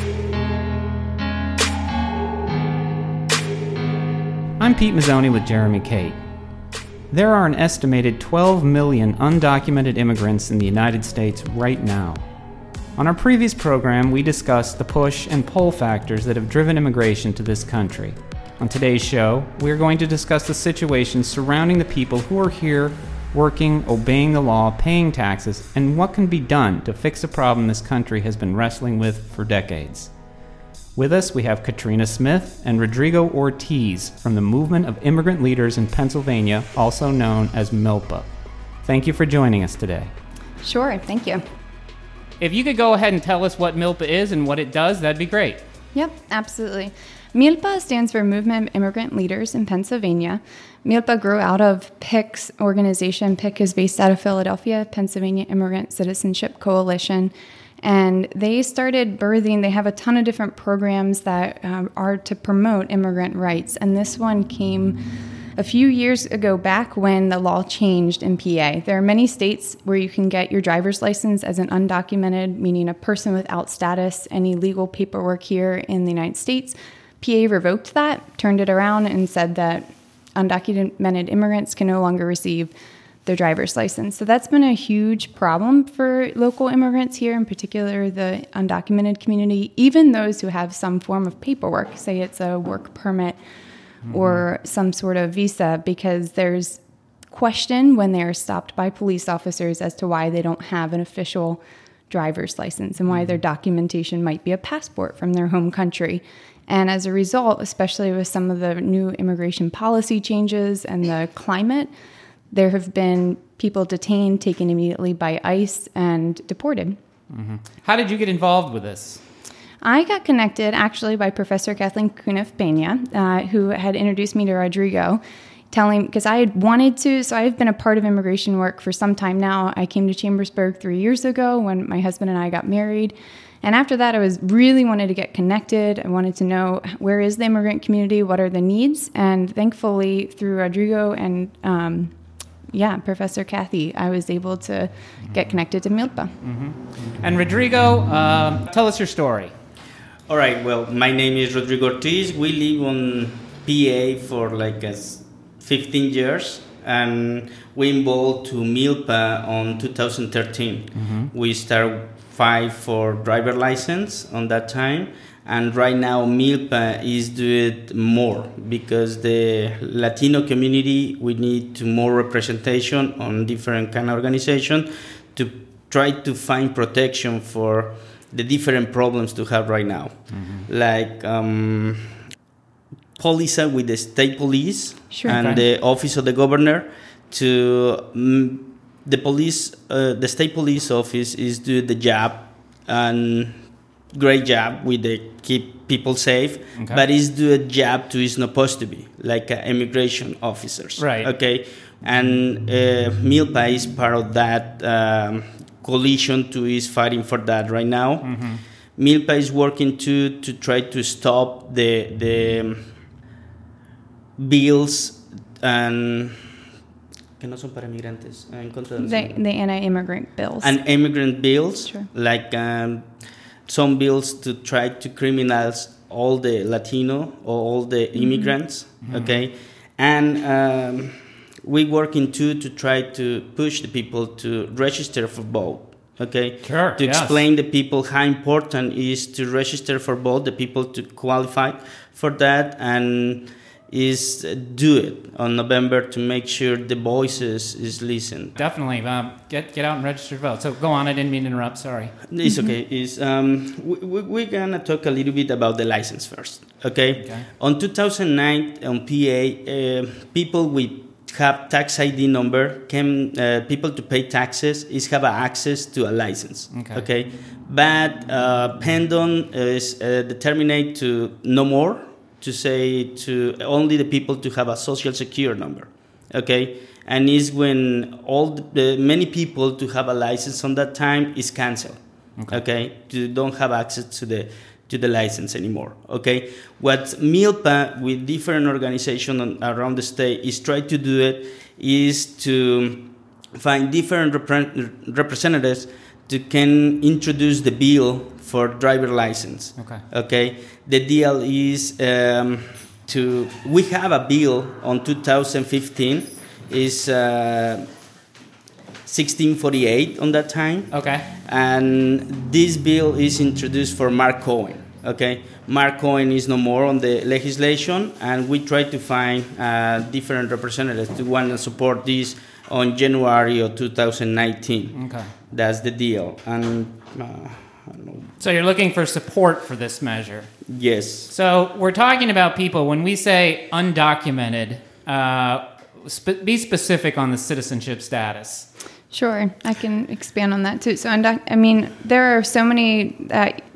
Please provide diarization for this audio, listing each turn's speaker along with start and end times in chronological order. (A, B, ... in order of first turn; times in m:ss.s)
0:04.6-0:06.2 A
0:07.1-0:12.3 A
0:13.0-0:30.1 A
0:31.0-0:38.3 A
0:38.8-0:40.1 A
0:40.6-0:41.4 B
0:42.4-0:45.6 A
0:46.0-1:05.0 B
1:05.6-1:22.7 B
1:23.3-1:33.4 B
1:34.0-1:34.5 A
1:34.1-1:51.9 B
1:43.1-1:43.4 A
1:52.5-1:57.0 B
1:57.3-1:59.2 A
1:59.8-2:22.2 B
2:22.7-2:26.4 B
2:25.3-2:25.5 A
2:26.4-2:29.5 A
2:30.3-3:02.2 C
2:41.0-2:41.3 A
3:00.3-3:00.7 A
3:03.2-3:32.9 C
3:05.1-3:05.4 B
3:05.3-3:05.6 A
3:16.8-3:17.0 A
3:21.0-3:21.3 A
3:28.2-3:28.6 A
3:34.4-3:36.6 C
3:37.4-3:39.4 C
3:39.0-3:40.9 B
3:40.6-4:08.6 C
3:48.2-3:48.5 B
3:49.0-3:49.4 A
3:56.6-3:57.4 A
4:08.6-4:12.2 A
4:12.3-5:07.9 C
4:12.4-4:12.7 B
4:17.2-4:17.5 A
4:26.7-4:27.0 A
4:42.4-4:42.6 A
4:59.8-5:00.0 A
5:09.0-5:28.3 C
5:10.9-5:11.3 A
5:25.0-5:25.3 A
5:28.4-5:30.6 A
5:30.7-5:31.3 C
5:31.3-5:38.7 A
5:39.1-5:43.6 B